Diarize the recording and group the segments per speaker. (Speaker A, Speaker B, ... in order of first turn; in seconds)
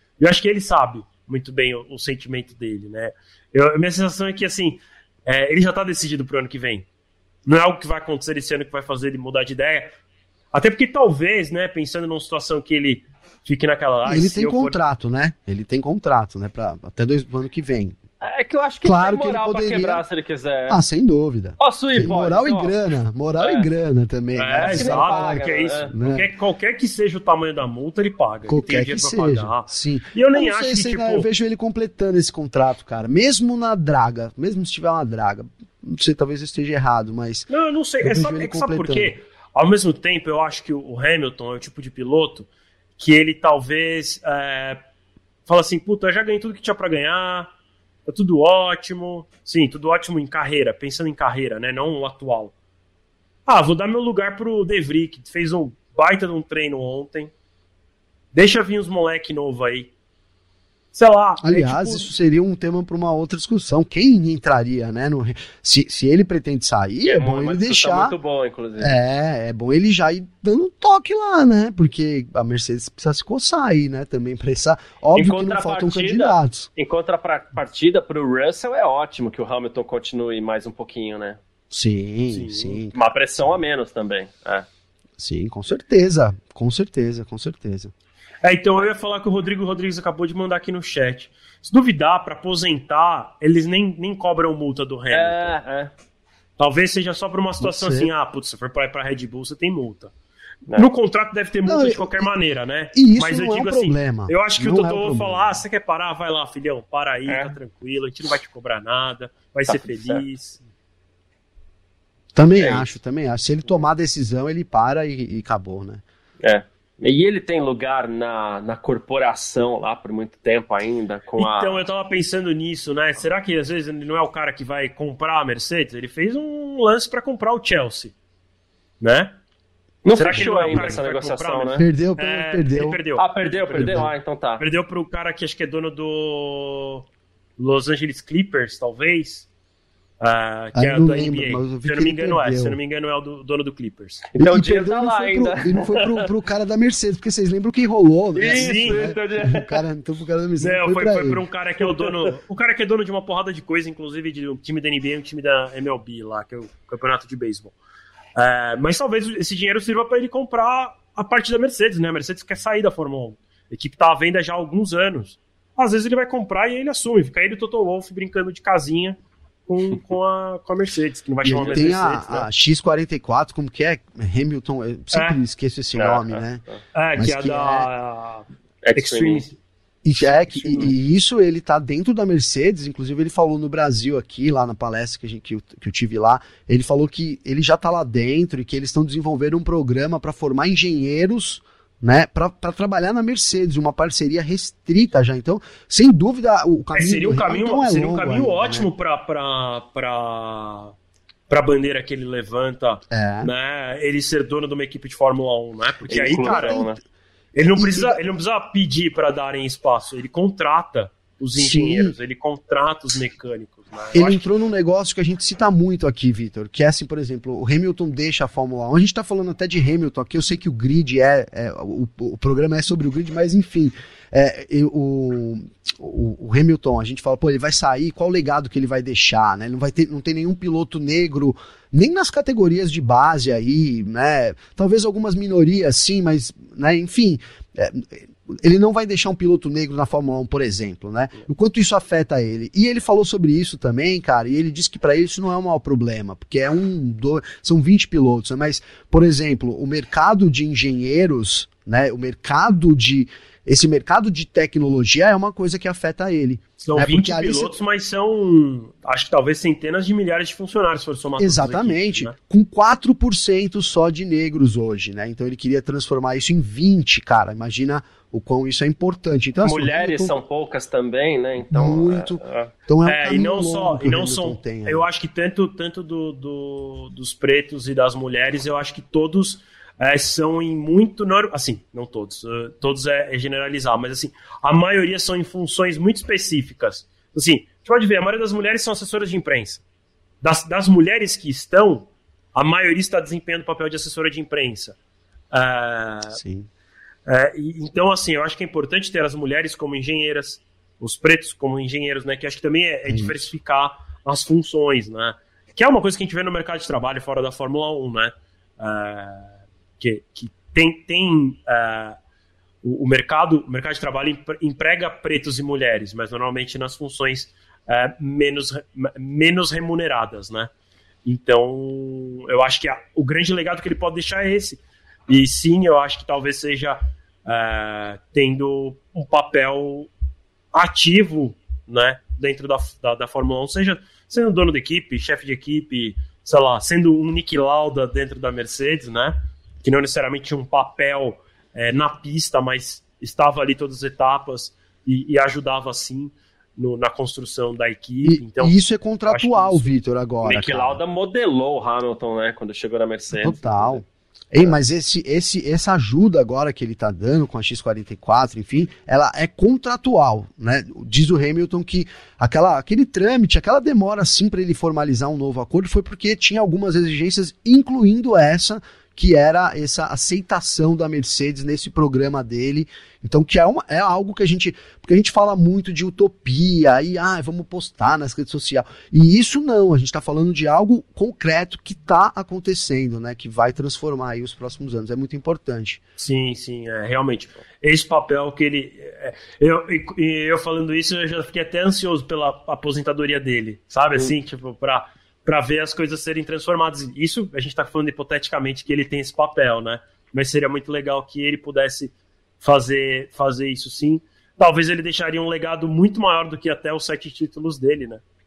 Speaker A: 0.2-6.9, 7.5-9.9, 10.5-14.8, 24.4-31.3, 37.5-42.5, 43.0-44.8, 45.5-47.5, 48.1-52.5, 53.5-57.3, 58.3-59.9, 60.9-62.1, 82.3-82.8, 88.4-95.5, 96.6-100.1, 100.7-110.6, 121.4-128.1, 129.0-129.3, 130.1-134.0, 134.6-137.1, 137.6-139.5, 140.2-144.2, 148.4-149.0, 150.6-157.8, 158.4-172.5, 175.1-175.4, 176.9-179.6, 180.2-180.9, 196.9-200.9, 201.5-206.9, 207.6-214.5, 256.8-262.3, 273.1-289.8, 290.4-295.0, 295.5-296.4, 297.3-312.2, 312.8-320.7, 321.2-330.1, 330.7-349.9, 386.2-408.2
Speaker B: 14.1-18.0, 18.8-20.0, 20.7-26.3, 28.5-37.5, 38.0-39.1, 61.4-68.2, 68.8-76.7, 81.7-83.0, 85.2-87.9, 97.6-98.1, 101.7-102.3, 102.9-105.6, 112.3-116.0, 130.3-131.0, 131.8-133.0, 133.7-134.1, 140.8-142.8, 144.4-151.4, 171.4-176.6, 177.2-177.9, 180.0-198.9, 203.1-203.5, 206.3-207.0, 207.7-208.2, 211.6-212.2, 214.1-257.8, 261.4-270.4, 271.7-275.1, 296.4-296.7, 303.1-303.4, 348.2-351.0, 353.3-386.0
Speaker C: 18.2-20.8, 21.6-22.8, 23.4-23.7, 24.6-25.9, 67.0-68.9, 75.1-81.4, 82.9-84.7, 95.1-95.9, 107.3-107.6, 109.7-110.2, 112.6-112.9, 116.4-121.8, 130.0-131.9, 133.2-134.6, 144.3-146.3, 148.3-149.8, 151.8-152.3, 171.6-171.9, 176.0-176.8, 178.8-179.5, 206.1-207.0, 269.6-272.7, 350.4-354.0